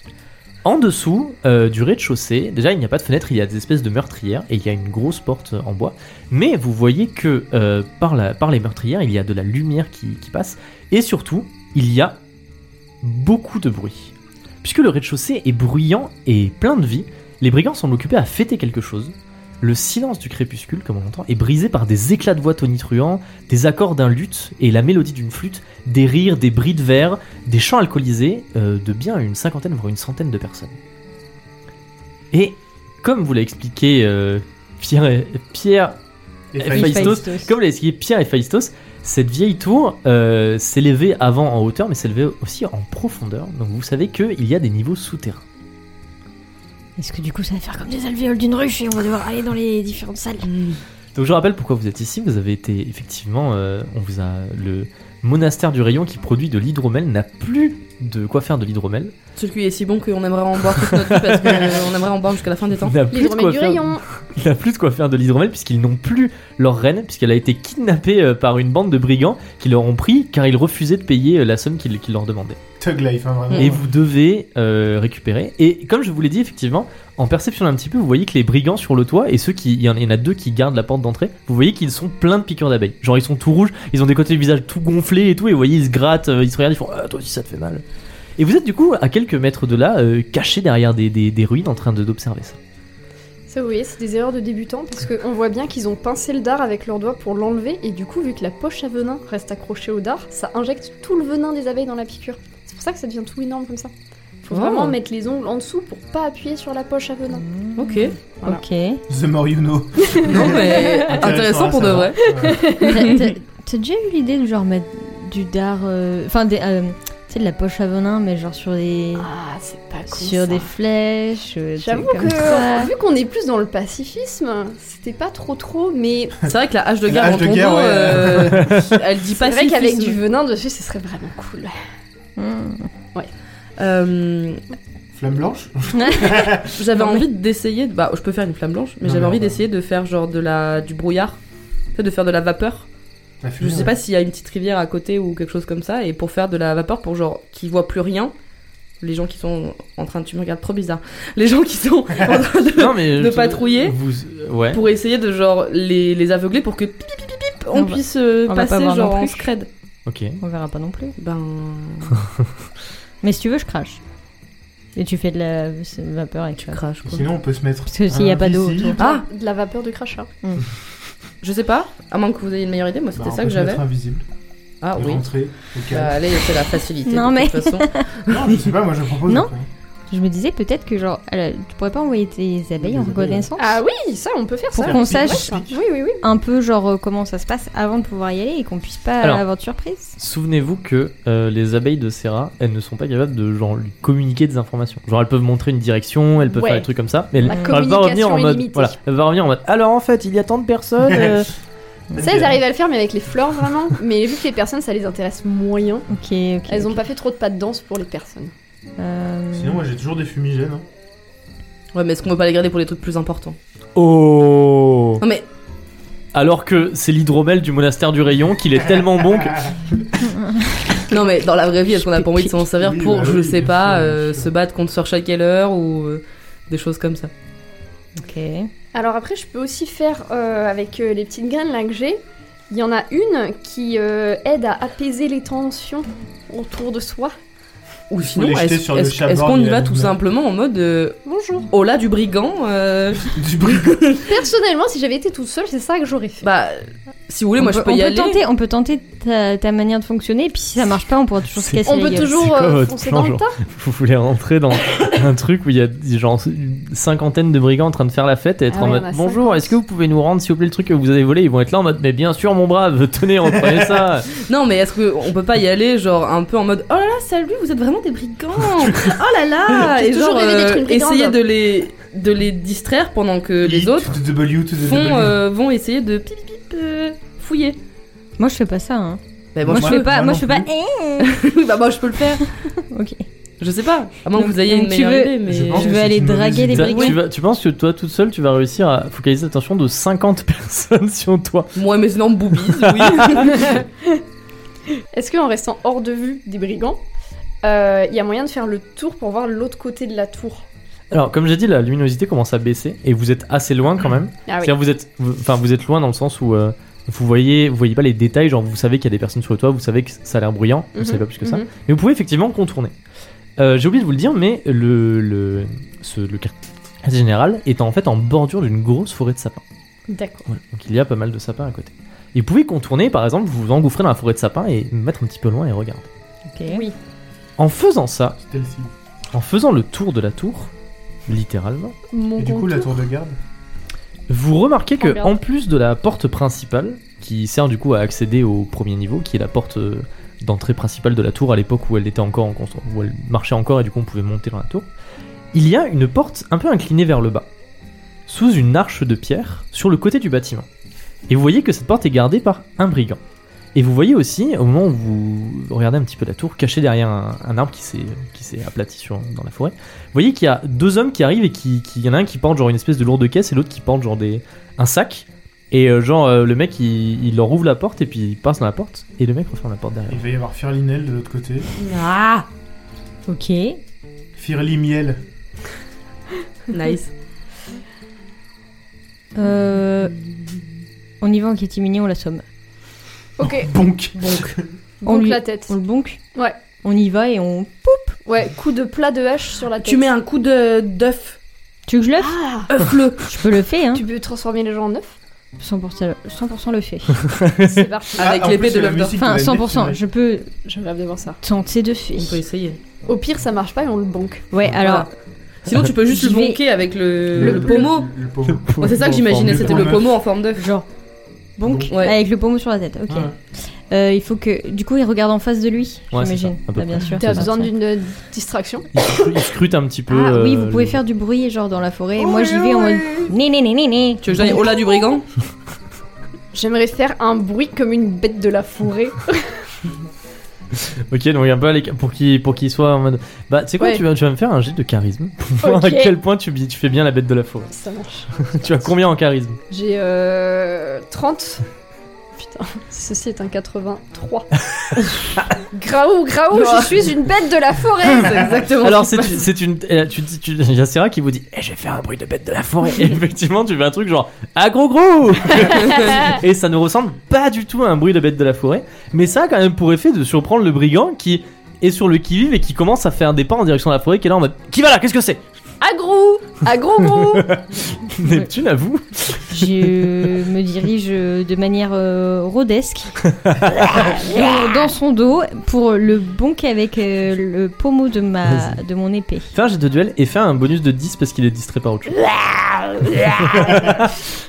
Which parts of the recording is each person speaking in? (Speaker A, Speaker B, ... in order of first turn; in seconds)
Speaker A: 0.6-12.2, 13.0-30.8, 32.3-36.0, 36.6-45.4, 51.1-59.1, 60.8-61.6, 62.8-72.6, 73.6-87.8, 88.4-92.6, 128.6-128.9, 152.8-154.8, 160.1-160.4, 190.2-201.5, 214.0-215.2, 216.3-219.7, 251.5-264.3, 286.7-291.8, 292.8-293.6, 301.1-312.9, 313.6-319.6, 320.5-326.1, 327.6-328.4, 329.3-330.7, 331.3-331.9, 334.3-344.9, 345.5-347.5, 348.3-350.7, 351.3-353.2, 353.8-370.3, 397.3-397.8, 408.5-409.9, 416.1-417.5, 418.9-421.0, 430.8-437.7, 438.4-439.6, 448.8-465.4, 467.1-470.3, 473.3-474.1, 479.5-484.2
Speaker B: 36.5-37.3, 72.8-73.9, 109.1-112.7, 127.1-128.7, 135.1-136.7, 139.0-139.6, 143.4-143.9, 167.1-169.0, 173.2-174.2, 175.0-176.2, 178.3-179.7, 182.8-183.5, 184.8-185.8, 201.0-201.5, 202.1-202.6, 209.5-210.8, 222.8-224.5, 238.2-240.2, 243.3-244.0, 263.6-264.0, 273.6-275.4, 279.6-280.7, 285.5-286.9, 328.4-328.9, 332.4-333.4, 370.1-371.7, 374.4-375.2, 383.4-384.6, 398.2-400.0, 407.4-408.7, 409.3-410.2, 411.6-411.9
Speaker C: 36.7-37.5, 47.0-50.5, 107.3-109.0, 112.7-119.3, 120.1-122.9, 132.4-132.9, 135.9-136.4, 136.9-137.3, 157.7-159.5, 160.4-161.2, 163.2-164.0, 164.9-166.8, 167.9-169.0, 177.1-178.1, 179.3-179.5, 180.1-183.8, 184.8-185.6, 186.2-190.2, 197.5-197.8, 202.2-202.5, 206.1-207.0, 209.0-209.8, 220.2-220.7, 222.0-222.5, 228.2-228.7, 247.6-252.5, 278.4-281.4, 282.5-283.2, 284.3-287.2, 326.5-326.8, 371.9-372.5, 373.3-373.8, 379.4-380.2, 381.2-382.4, 385.1-386.2, 386.8-388.2, 391.9-394.1, 395.6-397.4, 399.2-400.5, 401.4-402.4, 404.5-405.1, 406.0-406.6, 410.6-410.9, 411.6-417.7, 420.1-424.9, 469.5-473.2, 473.8-479.5
Speaker D: 50.4-50.8, 59.4-63.0, 73.5-73.8, 104.5-105.0, 107.8-108.2, 110.2-113.3, 126.5-130.2, 133.8-134.6, 136.7-141.4, 141.9-142.9, 143.6-148.3, 149.0-154.0, 154.7-159.7, 161.2-162.2, 166.6-167.3, 169.0-169.2, 171.4-173.8, 174.8-175.2, 175.9-178.7, 211.9-213.6, 215.2-215.5, 221.1-227.3, 238.1-244.3, 246.4-248.4, 264.3-274.2, 274.8-277.8, 279.6-280.1, 281.2-282.5, 283.6-286.0, 286.7-287.2, 291.8-293.8, 371.8-372.1, 376.7-377.1, 384.1-384.6, 389.8-391.4, 392.7-393.2, 398.1-399.2, 402.1-402.8, 404.7-405.1, 405.6-408.1, 408.8-410.7, 411.9-412.2, 424.2-425.2, 446.5-447.1, 448.1-449.5, 455.7-456.1
Speaker E: 63.1-64.0, 93.5-103.9, 104.4-107.5, 110.1-111.0, 112.2-113.1, 119.2-120.7, 121.8-126.5, 129.3-131.7, 168.9-170.3, 183.6-186.2, 196.5-196.9, 197.4-199.0, 202.2-206.1, 206.7-208.5, 228.9-237.3, 241.3-241.7, 244.3-246.5, 251.9-253.5, 258.7-259.7, 269.9-271.4, 295.1-297.0, 297.6-300.7, 304.5-304.8, 310.9-311.7, 320.1-320.5, 326.7-326.9, 332.1-333.0, 335.0-335.4, 383.4-383.7, 385.0-385.7, 388.2-390.1, 392.2-392.7, 393.9-395.1, 397.6-398.3, 400.6-401.4, 403.1-404.5, 417.2-418.9, 426.5-429.6, 435.6-436.1, 437.7-438.9, 439.7-441.6, 442.4-444.7, 445.5-448.7, 465.8-467.6